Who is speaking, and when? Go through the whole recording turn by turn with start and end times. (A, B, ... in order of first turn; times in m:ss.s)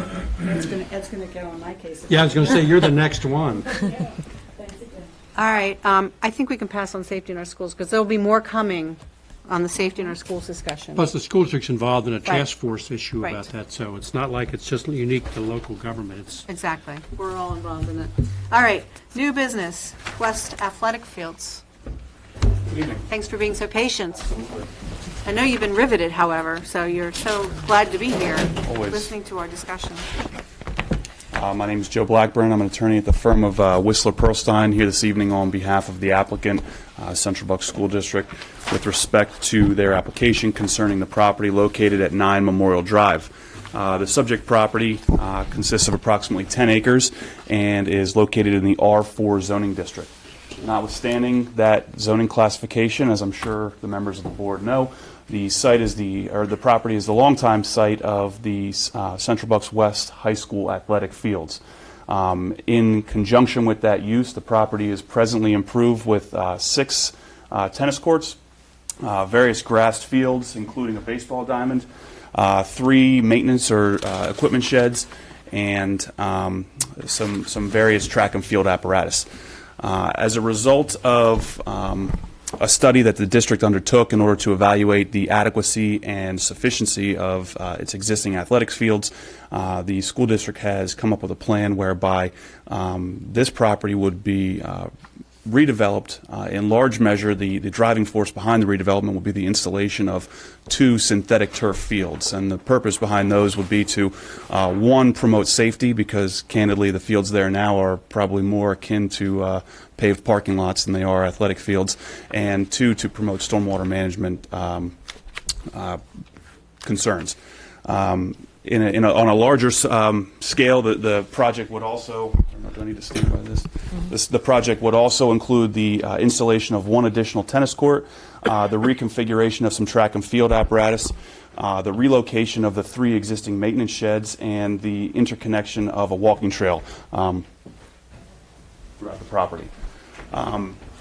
0:00.4-0:02.5 A
0:02.1-0:03.7 B
0:03.8-0:05.1 A
0:05.4-0:11.1 C
0:11.0-0:16.5 B
0:13.2-0:13.5 C
0:16.5-0:21.6 C
0:22.7-0:23.0 D
0:23.1-0:24.4 C
0:25.2-0:30.1 C
0:28.6-0:29.1 D
0:31.3-1:08.4 D
1:09.0-1:19.3 D
1:19.8-1:34.9 D
1:35.4-1:54.9 D
1:55.7-1:56.0 D
1:56.8-2:17.4 D
2:19.0-2:19.7 D
2:20.3-2:20.8 D